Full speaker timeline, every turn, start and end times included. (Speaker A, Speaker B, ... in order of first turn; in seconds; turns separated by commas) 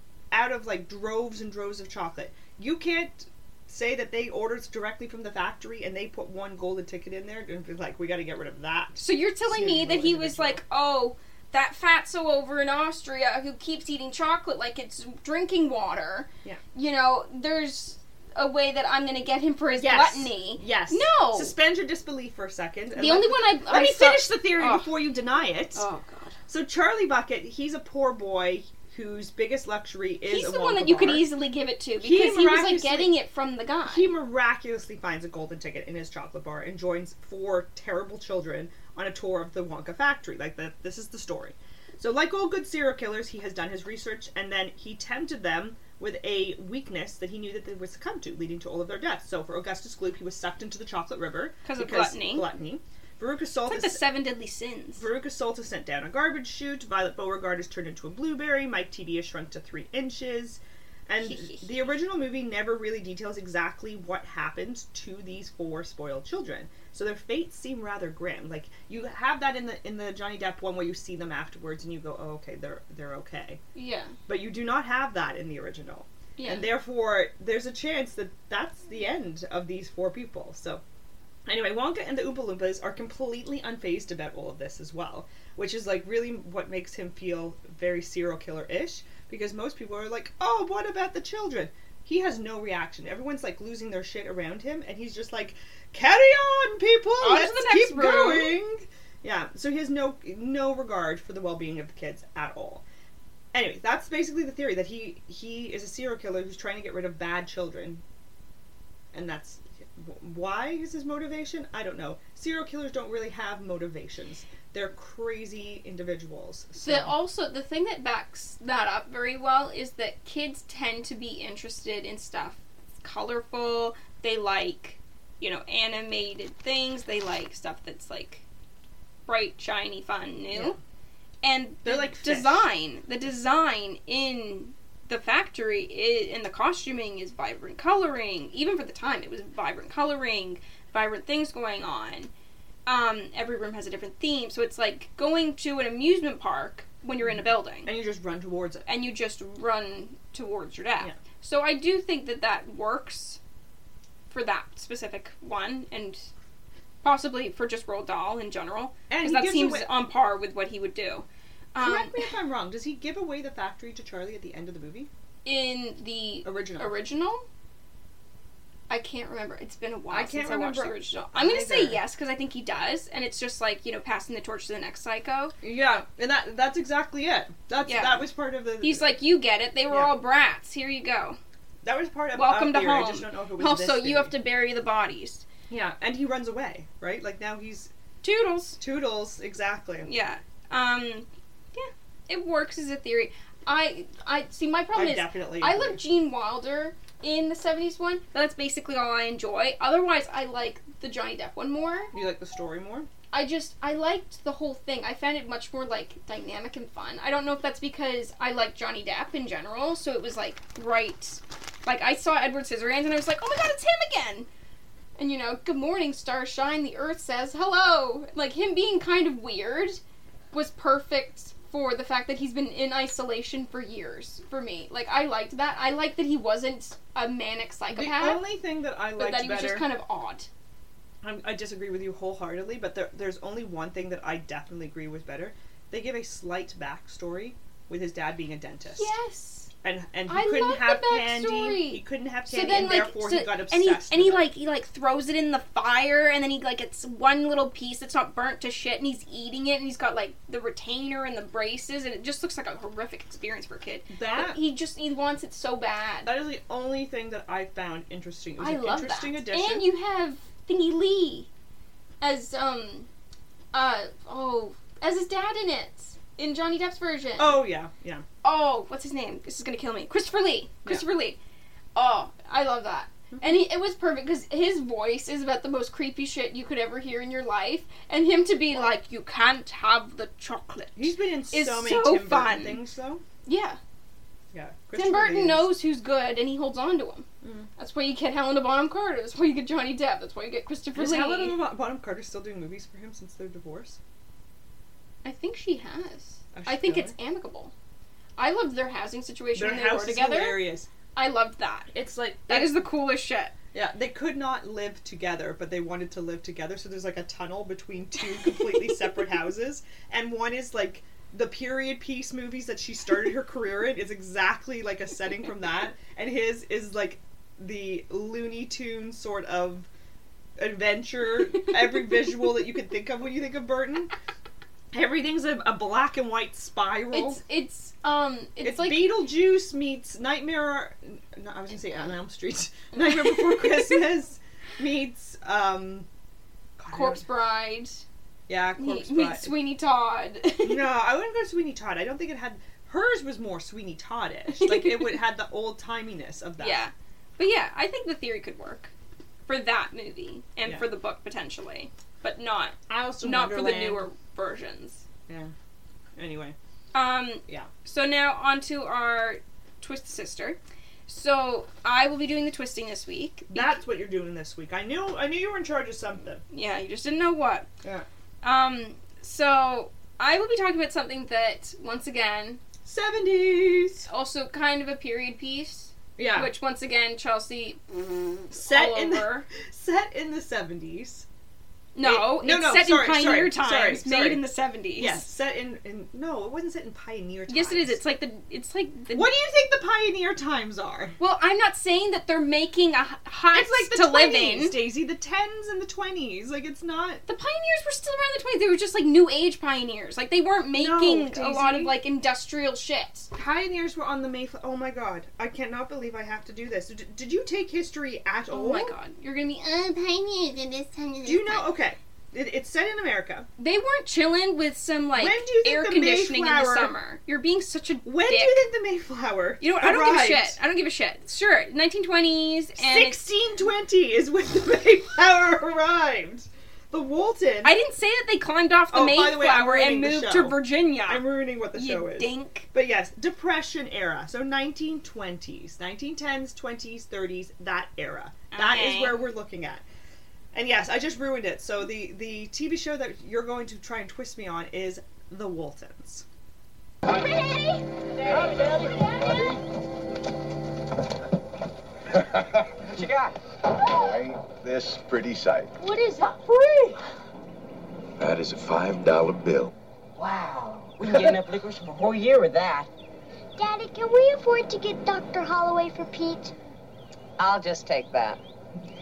Speaker A: 0.3-10.6, Speaker B: 9.0-21.6, Speaker A: 19.8-25.8, Speaker B: 22.9-25.0, Speaker B: 25.7-26.4, Speaker A: 26.5-31.3, Speaker B: 30.3-34.1, Speaker A: 32.0-33.1, Speaker A: 33.9-54.0, Speaker B: 51.6-52.5, Speaker B: 53.7-55.0, Speaker A: 55.0-73.6, Speaker B: 61.2-61.9, Speaker B: 73.7-74.1, Speaker A: 74.3-80.8, Speaker B: 76.4-76.7, Speaker A: 81.5-102.8, Speaker B: 97.2-98.6, Speaker A: 103.5-108.0, Speaker A: 109.1-117.1, Speaker B: 116.8-128.4, Speaker B: 129.3-130.8, Speaker A: 130.5-130.8, Speaker B: 131.4-142.3, Speaker A: 131.8-132.6, Speaker B: 142.9-147.9, Speaker A: 147.2-148.9, Speaker B: 148.9-153.4, Speaker B: 154.3-156.3, Speaker B: 157.0-162.3, Speaker A: 159.1-159.9, Speaker A: 161.8-165.1, Speaker B: 165.4-167.4, Speaker A: 166.4-166.9, Speaker B: 168.9-175.5, Speaker A: 170.1-172.0, Speaker A: 175.6-179.1, Speaker B: 177.8-178.3, Speaker B: 178.8-181.4, Speaker A: 181.8-184.3, Speaker B: 182.3-185.4, Speaker A: 185.7-187.9, Speaker B: 188.2-188.8, Speaker A: 188.8-190.1, Speaker B: 190.1-202.1, Speaker A: 194.9-196.0, Speaker A: 202.1-203.1, Speaker B: 203.3-214.5, Speaker B: 215.2-220.0, Speaker B: 220.5-228.4, Speaker A: 227.9-229.8, Speaker B: 229.2-230.5, Speaker A: 231.2-239.1, Speaker B: 239.0-239.7, Speaker A: 239.8-244.4, Speaker B: 240.3-256.3, Speaker A: 254.1-254.6, Speaker A: 256.2-259.9, Speaker B: 258.6-261.5, Speaker B: 262.2-263.1, Speaker B: 263.7-267.6, Speaker A: 267.4-268.2, Speaker B: 268.4-271.4, Speaker B: 271.9-282.8, Speaker A: 273.3-273.6, Speaker A: 280.9-283.2, Speaker B: 283.4-283.8, Speaker A: 284.5-285.7, Speaker B: 284.9-287.3, Speaker A: 287.4-287.7, Speaker B: 287.8-291.6, Speaker A: 290.9-294.0, Speaker B: 295.2-297.7, Speaker A: 296.6-297.1, Speaker B: 298.4-300.6, Speaker A: 299.6-300.9, Speaker B: 301.1-301.9, Speaker A: 301.9-302.8, Speaker B: 302.5-303.5, Speaker A: 303.7-319.9, Speaker B: 308.4-308.9, Speaker A: 320.6-324.1, Speaker A: 324.9-327.4, Speaker B: 327.1-329.2, Speaker A: 328.6-336.1, Speaker B: 333.0-333.9, Speaker A: 336.8-337.2, Speaker B: 336.9-338.0, Speaker A: 338.5-339.5, Speaker B: 338.8-340.9, Speaker A: 340.6-346.8, Speaker B: 344.6-345.1, Speaker B: 346.6-348.9, Speaker B: 349.5-355.0, Speaker A: 352.9-354.1, Speaker A: 355.3-355.5, Speaker A: 356.2-356.6, Speaker B: 356.9-363.8, Speaker A: 363.5-366.4, Speaker B: 366.5-367.7, Speaker B: 368.4-372.6, Speaker A: 372.8-374.1, Speaker B: 374.1-379.5, Speaker A: 376.2-376.5, Speaker A: 378.5-381.3, Speaker B: 381.9-385.3, Speaker A: 382.0-384.4, Speaker A: 385.0-388.0, Speaker B: 387.5-389.3, Speaker A: 389.1-391.1, Speaker B: 391.2-394.8, Speaker A: 393.5-397.2, Speaker B: 397.3-403.3, Speaker A: 400.7-401.9, Speaker A: 403.3-408.9, Speaker B: 408.5-411.7, Speaker A: 411.2-413.5, Speaker B: 413.6-418.7, Speaker A: 415.1-416.9, Speaker A: 418.0-420.6, Speaker B: 419.6-423.2, Speaker A: 422.8-427.7, Speaker B: 427.6-432.7, Speaker A: 428.9-439.8, Speaker B: 438.5-439.3, Speaker A: 440.5-446.2, Speaker C: 452.9-453.3, Speaker D: 454.0-455.7, Speaker D: 458.2-459.7, Speaker C: 460.2-462.9, Speaker E: 463.6-466.5, Speaker C: 467.4-468.4